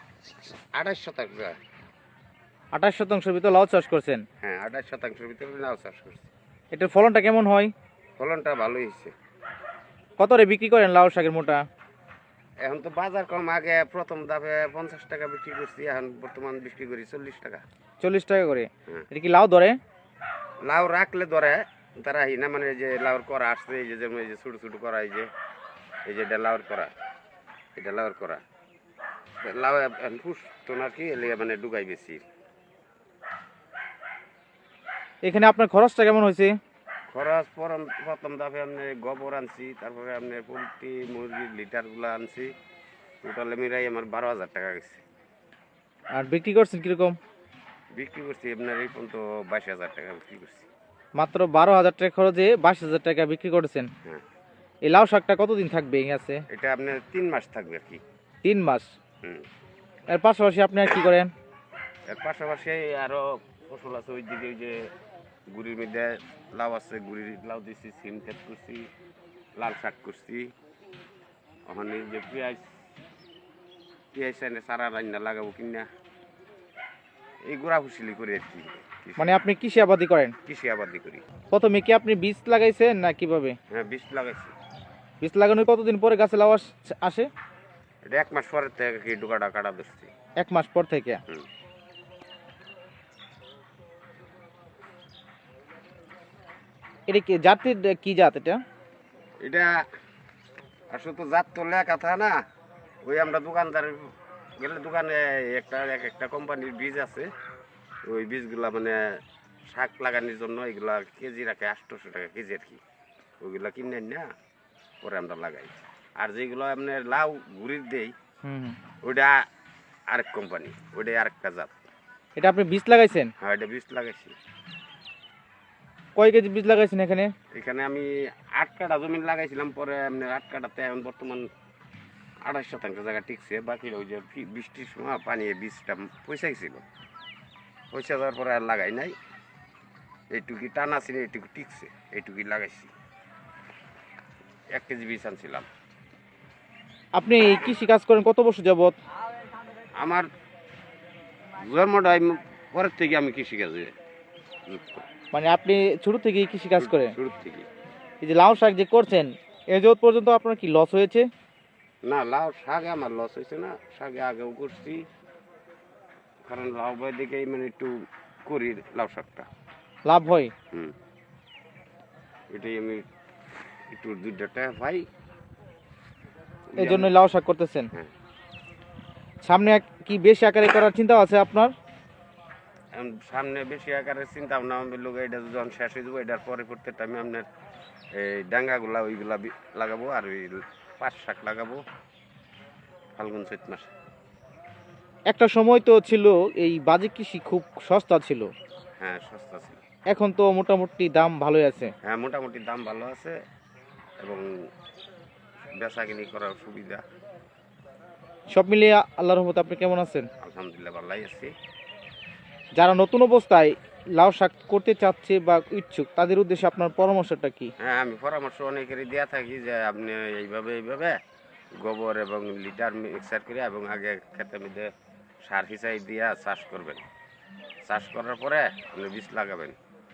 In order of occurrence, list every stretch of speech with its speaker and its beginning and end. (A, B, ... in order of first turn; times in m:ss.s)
0:00.8-0:01.5 A
0:02.7-0:04.2 B
0:04.4-0:06.3 A
0:06.7-0:07.7 B
0:08.2-0:09.1 A
0:10.2-0:11.6 B
0:12.6-0:17.6 A
0:18.0-0:19.8 B
0:20.6-0:25.3 A
0:26.1-0:26.9 A
0:27.8-0:28.4 A
0:29.4-0:32.2 A
0:35.2-0:36.5 B
0:37.1-0:42.5 A
0:43.2-0:45.0 A
0:46.1-0:47.2 B
0:47.9-0:50.7 A
0:51.2-0:53.9 B
0:54.8-0:56.4 B
0:56.5-0:58.0 A
0:58.4-0:58.9 B
0:59.2-0:59.5 A
1:00.1-1:01.3 B
1:02.1-1:04.8 A
1:05.5-1:08.9 A
1:09.6-1:10.5 A
1:11.7-1:12.7 A
1:14.1-1:15.9 A
1:17.5-1:19.4 A
1:19.2-1:20.3 B
1:20.4-1:21.2 A
1:21.5-1:23.5 B
1:23.7-1:24.5 A
1:25.2-1:27.3 B
1:28.0-1:30.1 A
1:30.4-1:31.2 B
1:37.1-1:38.6 B
1:39.4-1:39.8 A
1:40.9-1:42.4 A
1:43.0-1:47.3 A
1:48.1-1:52.8 A
1:53.4-1:54.3 A
1:55.0-1:58.1 A
1:58.4-1:58.8 B
1:59.0-1:59.4 A
2:00.1-2:01.7 A
2:02.4-2:03.3 B
2:03.4-2:04.4 A
2:06.2-2:07.3 B
2:07.5-2:11.5 A
2:12.4-2:16.8 A
2:17.9-2:19.2 A
2:20.3-2:22.9 A
2:24.7-2:25.7 A
2:27.2-2:29.0 B
2:30.0-2:30.2 A
2:31.6-2:33.9 A
2:34.7-2:35.0 A
2:35.3-2:37.1 B
2:36.8-2:37.7 A
2:38.2-2:41.3 B
2:42.0-2:45.0 A
2:46.4-2:47.9 A
2:48.4-2:49.5 A
2:50.0-2:50.5 B
2:52.5-2:53.0 A
2:53.9-2:55.1 A
2:56.7-2:57.1 A
2:56.8-2:57.9 B
2:59.4-3:01.7 B
3:02.9-3:07.5 A
3:08.1-3:11.8 A
3:13.1-3:13.9 A
3:15.3-3:18.5 B
3:19.0-3:19.8 A
3:20.1-3:21.9 B
3:22.0-3:23.4 A
3:24.2-3:24.5 A
3:25.7-3:27.0 A
3:28.5-3:30.3 B
3:30.4-3:31.5 A
3:32.8-3:37.7 B
3:37.8-3:41.2 A
3:41.8-3:44.9 A
3:45.4-3:47.0 A
3:47.9-3:49.8 A